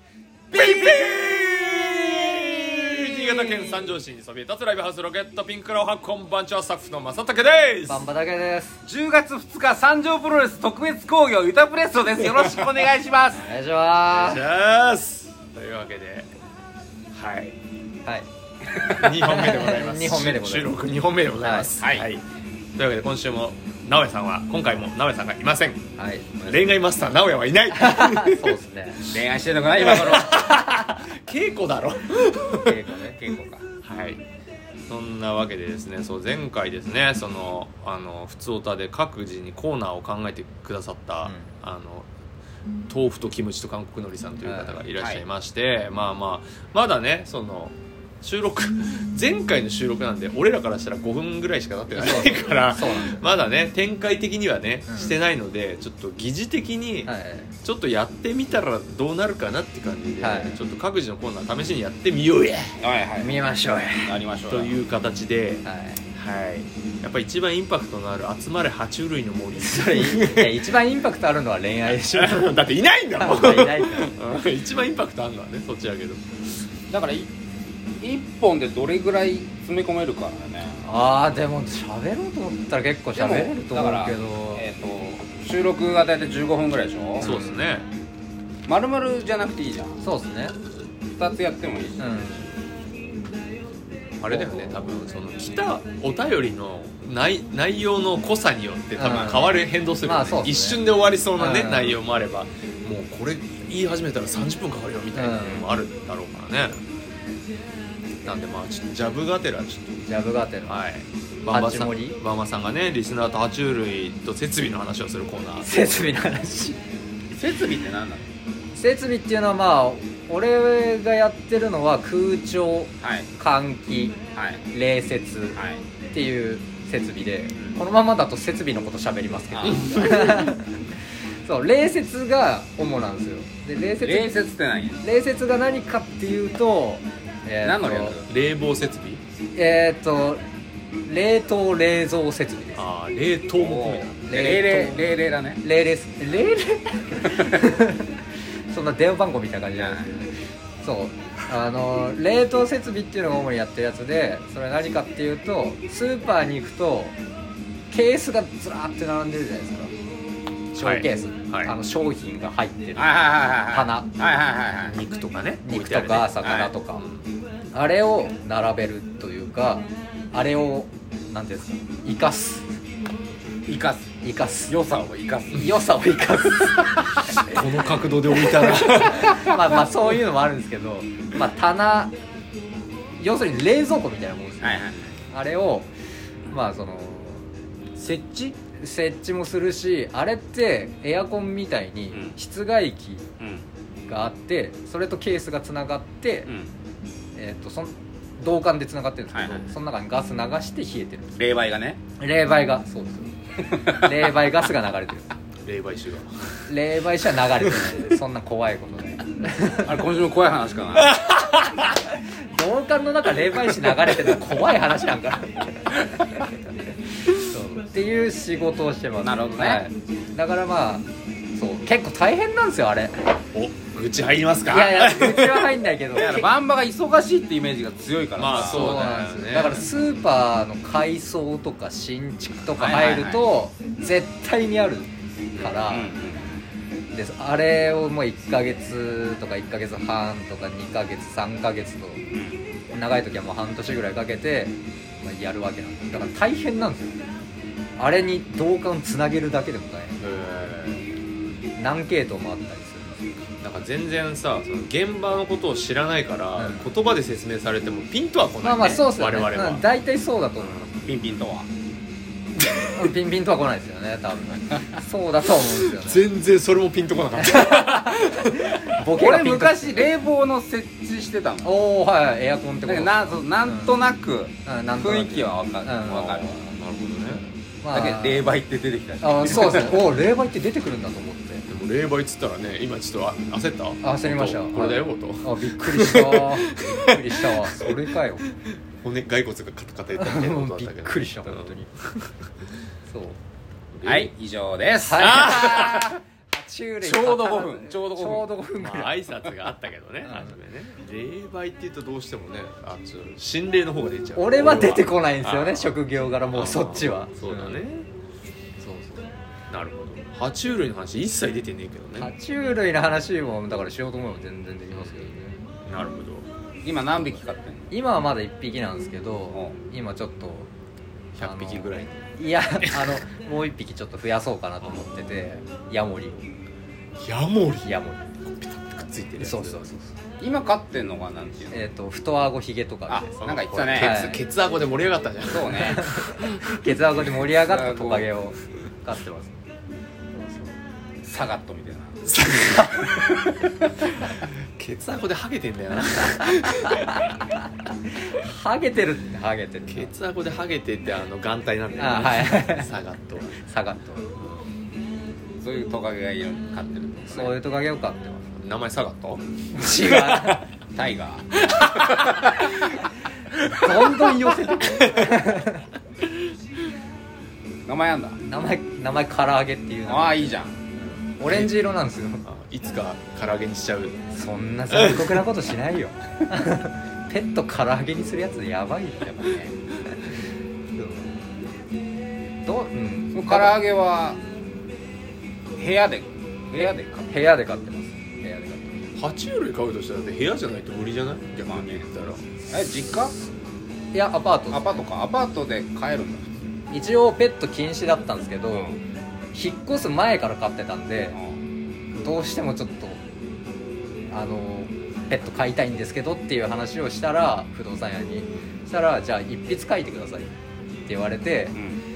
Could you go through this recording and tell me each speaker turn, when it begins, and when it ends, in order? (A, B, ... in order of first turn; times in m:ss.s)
0:00.5-0:01.2 A
0:00.5-0:08.1 B
0:02.9-0:03.8 C
0:07.9-0:08.8 C
0:08.8-0:13.5 A
0:13.4-0:14.4 C
0:14.1-0:16.3 B
0:17.1-0:17.6 B
0:18.8-0:22.2 B
0:18.9-0:20.8 C
0:21.4-0:21.7 C
0:21.8-0:22.1 A
0:22.8-0:25.9 B
0:26.0-0:26.8 C
0:26.4-0:28.6 B
0:27.8-0:29.1 C
0:29.1-0:30.5 A
0:29.8-0:32.8 B
0:32.5-0:33.2 C
0:33.2-0:33.6 A
0:33.8-0:34.2 B
0:34.9-0:42.1 B
0:41.2-0:41.5 C
0:42.9-0:57.1 B
0:44.4-0:44.8 C
0:45.0-0:45.2 A
0:51.9-0:53.2 C
0:54.9-0:55.1 C
0:57.0-0:57.5 C
0:57.6-1:02.8 B
1:00.2-1:00.6 C
1:02.8-1:03.4 A
1:03.2-1:04.2 C
1:04.0-1:04.8 A
1:04.5-1:10.7 B
1:05.6-1:06.0 C
1:09.6-1:12.5 C
1:12.0-1:16.3 B
1:13.2-1:14.2 C
1:16.9-1:17.3 A
1:18.0-1:20.8 A
1:20.8-1:24.6 C
1:23.2-1:27.3 A
1:27.2-1:27.7 C
1:27.2-1:27.9 B
1:28.7-1:30.0 A
1:30.0-1:30.5 C
1:31.2-1:32.5 A
1:32.0-1:32.4 C
1:34.2-1:46.8 B
1:34.3-1:34.8 A
1:39.0-1:40.8 C
1:41.4-1:42.0 C
1:45.1-1:45.7 C
1:48.2-1:50.0 B
1:50.0-1:50.8 C
1:50.7-1:56.1 B
1:51.5-1:52.2 C
1:55.6-1:56.8 C
1:57.3-1:58.3 A
1:58.7-2:04.2 C
2:03.0-2:03.3 A
2:04.3-2:04.6 A
2:04.7-2:05.6 C
2:05.6-2:05.8 A
2:06.1-2:10.9 C
2:09.5-2:10.0 A
2:09.7-2:10.6 B
2:11.4-2:14.4 C
2:14.0-2:15.0 A
2:15.0-2:18.2 C
2:17.6-2:18.3 A
2:18.3-2:19.2 B
2:19.5-2:20.4 C
2:21.0-2:22.8 C
2:22.8-2:24.2 B
2:23.6-2:25.6 A
2:24.2-2:28.2 C
2:27.3-2:27.6 A
2:28.7-2:37.2 C
2:29.8-2:30.2 A
2:37.9-2:39.9 C
2:40.7-2:44.1 C
2:40.8-2:41.7 B
2:43.0-2:45.0 A
2:44.8-2:46.4 B
2:45.6-2:47.1 C
2:46.4-2:46.7 A
2:47.0-2:47.2 B
2:47.7-2:52.7 C
2:53.7-2:54.1 A
2:54.2-2:54.7 C
2:54.7-2:55.9 A
2:55.5-2:57.6 C
2:57.4-2:59.4 B
2:58.4-3:02.1 C
3:03.2-3:05.9 C
3:04.6-3:05.1 A
3:06.5-3:07.5 C
3:08.0-3:08.6 A
3:08.7-3:13.3 C
3:13.4-3:13.6 A
3:14.1-3:16.5 C
3:17.4-3:21.4 C
3:19.3-3:19.6 A
3:21.4-3:22.0 A
3:22.2-3:25.3 C
3:23.7-3:24.2 A
3:25.6-3:26.7 B
3:26.7-3:30.0 C
3:27.6-3:27.9 B
3:29.7-3:31.2 A
3:31.1-3:31.9 B
3:31.4-3:36.6 C
3:37.2-3:43.4 C
3:39.2-3:39.9 A
3:43.5-3:45.8 B
3:44.7-3:46.5 C
3:46.1-3:49.0 A
3:48.4-3:49.8 B
3:48.5-3:56.1 C
3:52.8-3:53.5 A
3:55.6-3:55.8 B
3:55.9-3:56.6 A
3:57.1-4:02.2 C
4:02.3-4:02.6 A
4:02.9-4:07.2 C
4:08.0-4:10.2 C
4:10.2-4:11.0 B
4:11.8-4:13.5 C
4:13.6-4:19.8 B
4:16.6-4:16.8 C
4:18.6-4:21.0 C
4:21.0-4:21.7 A
4:22.8-4:26.3 C
4:25.6-4:29.0 B
4:27.4-4:30.1 C
4:29.0-4:31.8 A
4:31.6-4:34.0 C
4:32.8-4:36.6 A
4:34.6-4:36.5 C
4:36.1-4:37.5 B
4:37.8-4:38.5 C
4:37.9-4:40.0 A
4:39.2-4:41.7 C
4:41.7-4:47.9 B
4:44.0-4:48.5 C
4:49.0-4:52.1 B
4:50.2-4:51.9 C
4:53.1-4:53.4 C
4:53.9-4:54.3 B
4:54.0-4:56.2 A
4:55.0-4:59.2 C
4:55.2-4:56.1 B
4:57.0-4:58.5 A
4:58.8-5:06.0 B
5:00.2-5:00.6 C
5:04.4-5:07.8 C
5:06.5-5:08.1 B
5:08.8-5:09.3 C
5:09.7-5:12.3 B
5:12.2-5:15.6 C
5:14.9-5:15.2 B
5:15.8-5:16.5 B
5:16.8-5:17.9 A
5:17.9-5:20.7 C
5:21.4-5:23.1 B
5:21.4-5:26.5 C
5:24.8-5:25.1 B
5:27.2-5:29.9 B
5:27.8-5:28.4 C
5:29.4-5:30.1 C
5:30.4-5:31.9 A
5:31.7-5:33.3 C
5:33.1-5:34.2 A
5:33.4-5:36.7 B
5:33.9-5:34.4 C
5:35.5-5:36.1 A
5:36.0-5:39.6 C
5:37.5-5:38.3 A
5:40.3-5:40.8 C
5:41.2-5:42.2 A
5:42.3-5:43.3 B
5:42.7-5:43.2 C
5:44.2-5:47.3 B
5:46.4-5:47.4 C
5:48.2-5:50.1 C
5:49.9-5:53.6 B
5:52.0-5:52.9 C
5:53.6-5:54.3 C
5:55.6-5:57.6 A
5:57.3-5:58.6 C
5:58.6-6:00.6 B
5:59.7-6:00.7 C
6:00.9-6:02.8 A
6:01.6-6:02.4 B
6:03.7-6:05.8 C
6:04.8-6:05.5 B
6:07.9-6:08.4 A
6:08.4-6:12.4 C
6:10.1-6:10.8 A
6:12.4-6:14.2 B
6:14.3-6:19.3 C
6:14.9-6:15.4 B
6:19.2-6:19.7 A
6:21.0-6:21.4 C
6:22.6-6:23.8 C
6:23.3-6:24.4 A
6:25.8-6:27.3 A
6:26.8-6:29.1 C
6:29.2-6:32.4 B
6:31.6-6:32.1 A
6:32.7-6:33.3 A
6:34.1-6:35.0 C
6:34.7-6:36.7 A
6:36.9-6:38.9 C
6:38.7-6:39.0 A
6:39.5-6:41.4 C
6:41.3-6:41.6 A
6:42.2-6:43.2 C
6:44.3-6:50.5 C
6:51.0-6:51.8 C
6:51.8-6:52.0 A